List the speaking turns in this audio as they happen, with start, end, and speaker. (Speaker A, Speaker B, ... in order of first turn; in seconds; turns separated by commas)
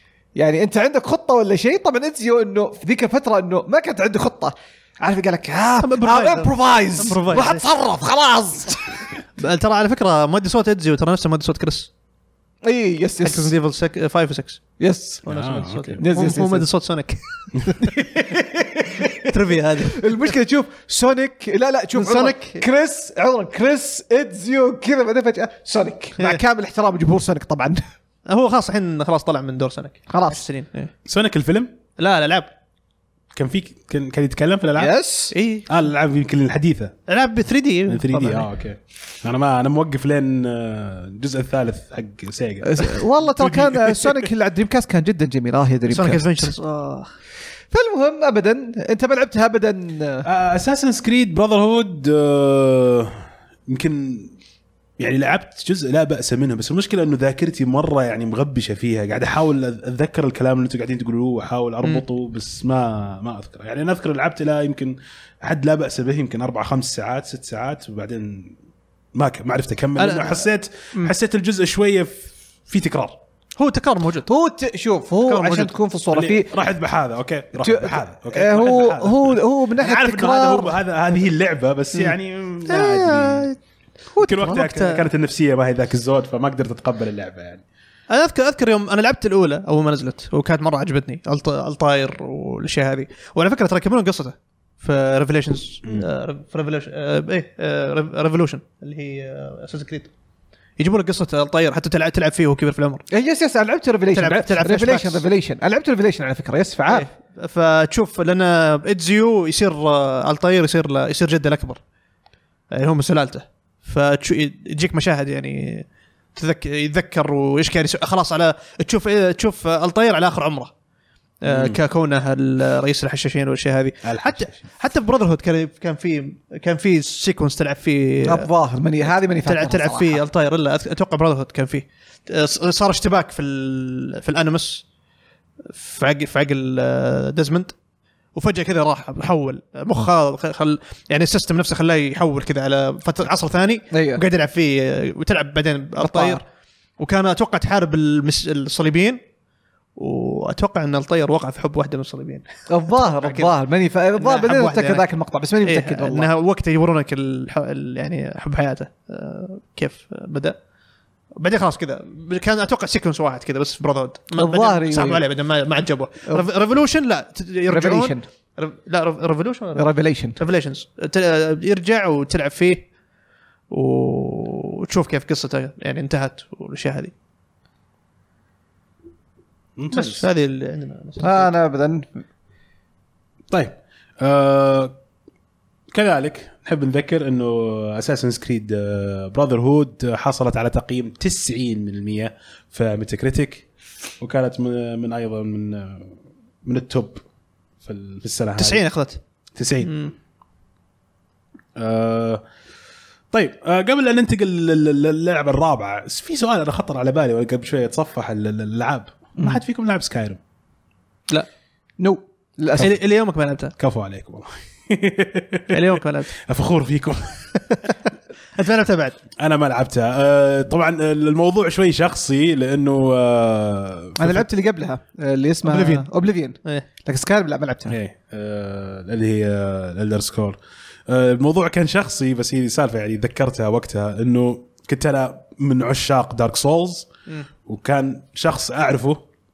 Speaker A: 0.4-9.0, Speaker B: 5.8-7.6, Speaker B: 9.4-11.9, Speaker A: 12.6-13.5, Speaker B: 13.2-14.6, Speaker A: 14.8-15.2, Speaker C: 15.3-16.0, Speaker B: 15.3-18.0, Speaker A: 16.0-16.7, Speaker A: 17.7-27.8, Speaker B: 19.2-20.1, Speaker B: 21.9-22.6, Speaker B: 28.3-30.9, Speaker A: 30.1-30.4, Speaker C: 31.1-31.7, Speaker B: 32.0-32.5, Speaker C: 33.3-34.9, Speaker A: 34.8-35.3, Speaker B: 35.3-35.7, Speaker C: 35.7-37.0, Speaker B: 37.1-38.5, Speaker C: 37.9-44.2, Speaker A: 42.6-46.5, Speaker B: 45.9-47.1, Speaker A: 47.7-50.3, Speaker C: 50.2-54.3, Speaker C: 55.0-68.5, Speaker C: 69.2-73.2, Speaker B: 70.0-71.1, Speaker B: 73.6-74.3, Speaker A: 74.3-76.5, Speaker B: 75.2-75.7, Speaker C: 76.1-83.5, Speaker A: 77.6-80.8, Speaker B: 82.7-83.6, Speaker B: 84.2-85.0, Speaker C: 84.2-87.6, Speaker B: 88.1-100.1, Speaker B: 100.8-103.0, Speaker A: 103.1-107.1, Speaker B: 104.1-105.2, Speaker B: 106.9-111.8, Speaker B: 112.7-120.7, Speaker B: 121.4-128.5, Speaker C: 121.5-121.8, Speaker C: 124.0-124.7, Speaker A: 128.2-130.2, Speaker B: 129.1-134.8, Speaker B: 135.7-137.8, Speaker B: 138.3-146.4, Speaker A: 143.9-144.2, Speaker A: 146.0-146.4, Speaker B: 147.0-149.2, Speaker B: 150.0-153.5, Speaker A: 152.7-156.3, Speaker B: 154.2-155.1, Speaker B: 155.6-160.6, Speaker B: 161.4-172.9, Speaker A: 164.4-165.2, Speaker A: 167.7-168.2, Speaker A: 169.8-170.4, Speaker B: 173.7-177.1, Speaker C: 179.8-180.2, Speaker B: 179.9-181.5, Speaker A: 181.2-182.2, Speaker C: 183.5-184.9, Speaker C: 185.9-193.7, Speaker C: 194.2-196.1, Speaker C: 196.7-197.2, Speaker C: 197.8-198.8, Speaker B: 198.6-199.2, Speaker C: 199.6-199.9, Speaker B: 199.8-200.1, Speaker C: 201.8-202.4, Speaker C: 203.3-210.4, Speaker A: 212.0-212.9, Speaker B: 212.8-213.7, Speaker C: 213.8-217.5, Speaker B: 215.7-216.3, Speaker B: 217.7-218.0, Speaker B: 218.6-219.2, Speaker C: 219.4-224.4, Speaker A: 224.2-228.0, Speaker B: 225.6-226.1, Speaker C: 227.9-230.6, Speaker C: 231.1-237.1, Speaker C: 237.7-239.2